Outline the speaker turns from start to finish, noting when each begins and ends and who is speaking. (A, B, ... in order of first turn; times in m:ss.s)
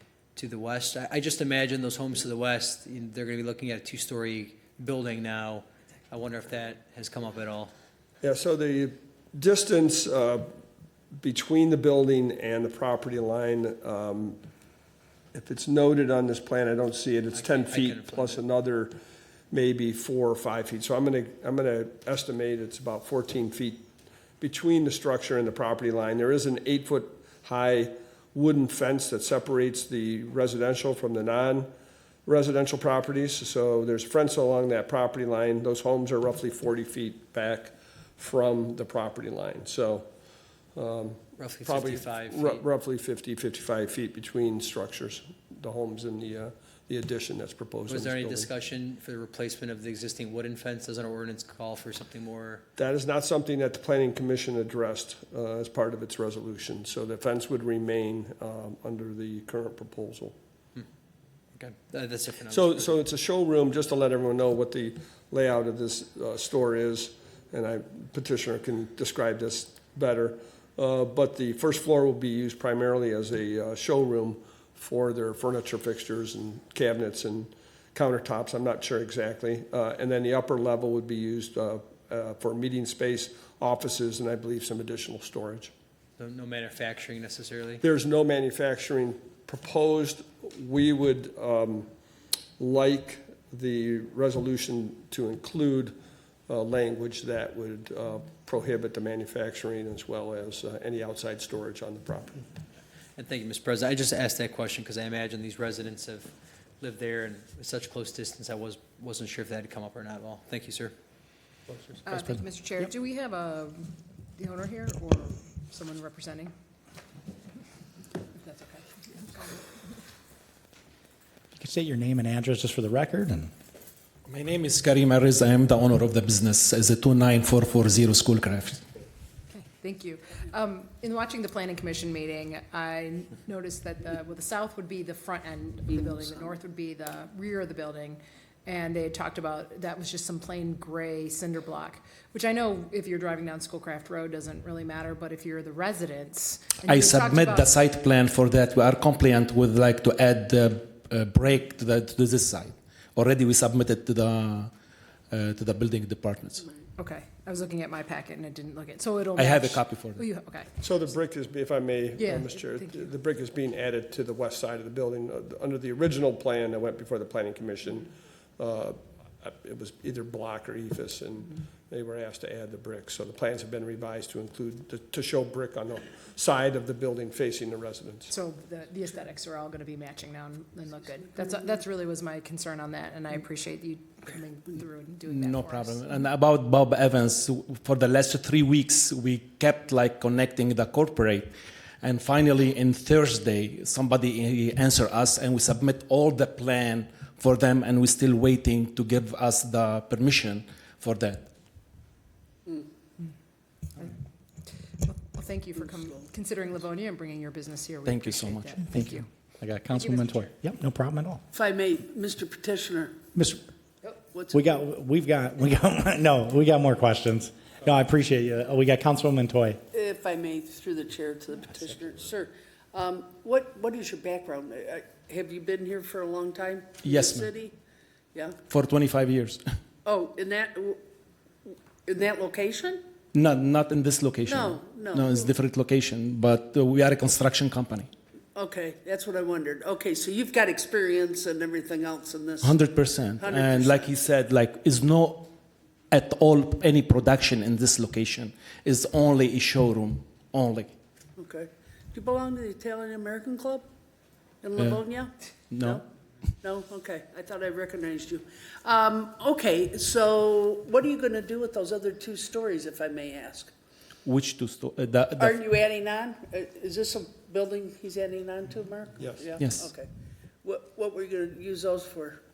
0:00.4-0:07.7 A
0:08.2-0:10.5 B
0:11.2-0:14.4 B
0:15.3-0:19.0 B
0:17.3-0:18.4 A
0:19.5-0:23.8 B
0:24.4-0:31.7 B
0:32.2-0:40.1 B
0:40.8-0:48.5 B
0:41.4-0:42.6 A
0:47.9-0:52.6 A
0:52.8-1:00.4 B
1:01.6-1:02.9 A
1:02.5-1:25.7 B
1:26.2-1:27.8 A
1:27.8-1:31.9 B
1:32.6-1:36.0 B
1:36.5-1:42.4 B
1:43.2-1:50.9 A
1:52.0-1:56.5 C
1:58.4-1:59.7 C
2:01.5-2:03.5 D
2:04.3-2:08.8 E
2:09.5-2:27.7 C
2:26.9-2:34.7 E
2:35.3-2:36.7 E
2:37.0-2:40.7 C
2:39.4-2:40.3 E
2:40.8-2:58.3 B
2:42.2-2:43.1 C
2:58.3-3:06.0 C
3:05.3-3:21.5 E
3:25.0-3:29.3 C
3:25.8-3:26.2 F
3:28.0-3:28.9 E
3:28.8-3:31.4 D
3:29.9-3:30.5 C
3:31.5-3:33.3 F
3:33.4-3:33.6 D
3:34.3-3:34.7 F
3:34.5-3:39.8 D
3:39.9-3:47.8 F
3:47.0-3:47.5 E
3:48.7-3:49.6 E
3:50.0-3:51.0 F
3:51.6-3:53.0 F
3:53.3-3:58.1 E
3:54.5-3:55.4 F
3:58.6-4:02.8 F
4:02.6-4:05.5 E
4:03.4-4:04.1 F
4:06.1-4:10.9 E
4:11.4-4:13.9 F
4:14.6-4:16.0 F
4:15.7-4:16.0 E
4:16.6-4:23.7 F
4:24.2-4:25.6 E
4:25.4-4:30.1 F
4:29.6-4:29.8 E
4:30.6-4:32.4 F